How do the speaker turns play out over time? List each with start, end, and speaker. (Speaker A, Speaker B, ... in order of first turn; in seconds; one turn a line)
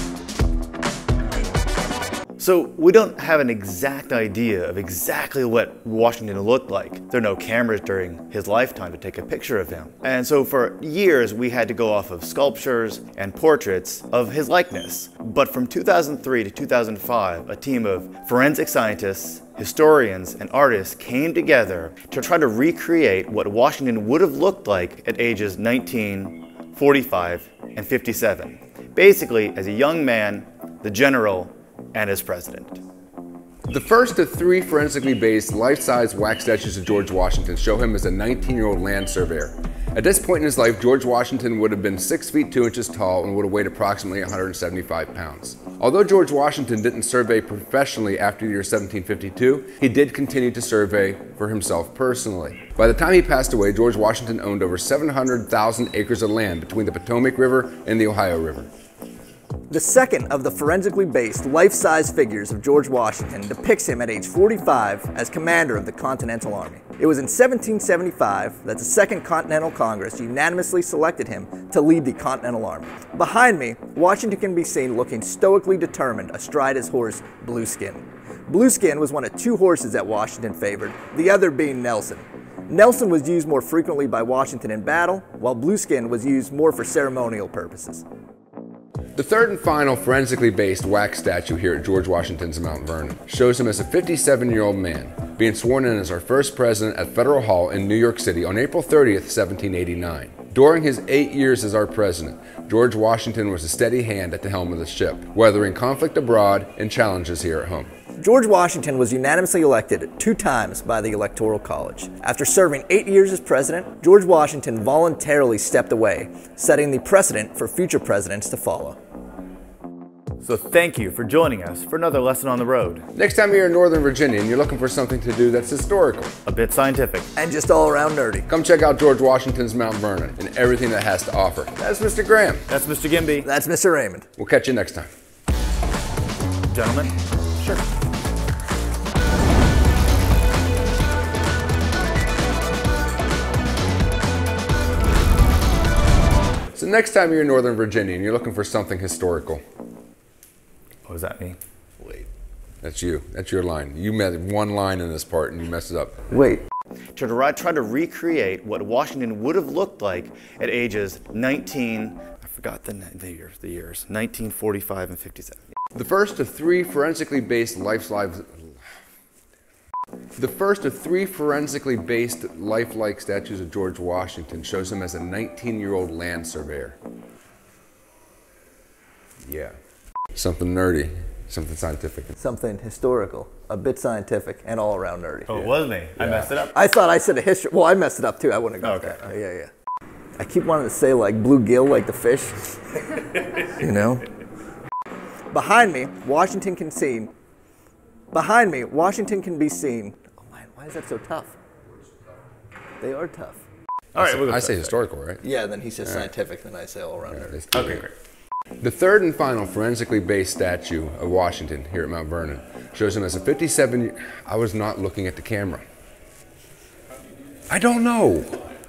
Speaker A: 2.4-32.8
Speaker B: 33.7-58.7
Speaker C: 59.7-88.0
Speaker B: 89.1-107.9
Speaker C: 108.2-119.0
Speaker A: 120.4-123.0
Speaker B: 123.1-126.3
Speaker A: 126.5-127.3
Speaker C: 127.3-128.5
Speaker B: 128.5-132.6
Speaker A: 132.7-133.5
Speaker C: 133.4-134.3
Speaker B: 134.4-135.1
Speaker A: 136.7-137.1
Speaker B: 146.7-149.6
Speaker A: 151.1-151.6
Speaker B: 152.8-156.2
Speaker C: 156.3-156.6
Speaker A: 157.1-165.6
Speaker B: 165.9-168.8
Speaker B: 170.3-177.0
Speaker B: 179.5-179.7
Speaker B: 180.3-182.3
Speaker C: 182.4-185.5
Speaker A: 185.5-186.7
Speaker B: 185.5-186.5
Speaker C: 186.7-189.7
Speaker A: 188.8-189.2
Speaker C: 190.4-192.8
Speaker C: 193.5-194.2
Speaker C: 195.5-197.3
Speaker C: 198.3-201.6
Speaker C: 203.0-203.6
Speaker A: 204.1-205.0
Speaker B: 204.2-205.4
Speaker C: 205.4-207.5
Speaker B: 207.3-208.1
Speaker A: 207.7-208.1
Speaker B: 208.8-215.8
Speaker B: 217.7-218.6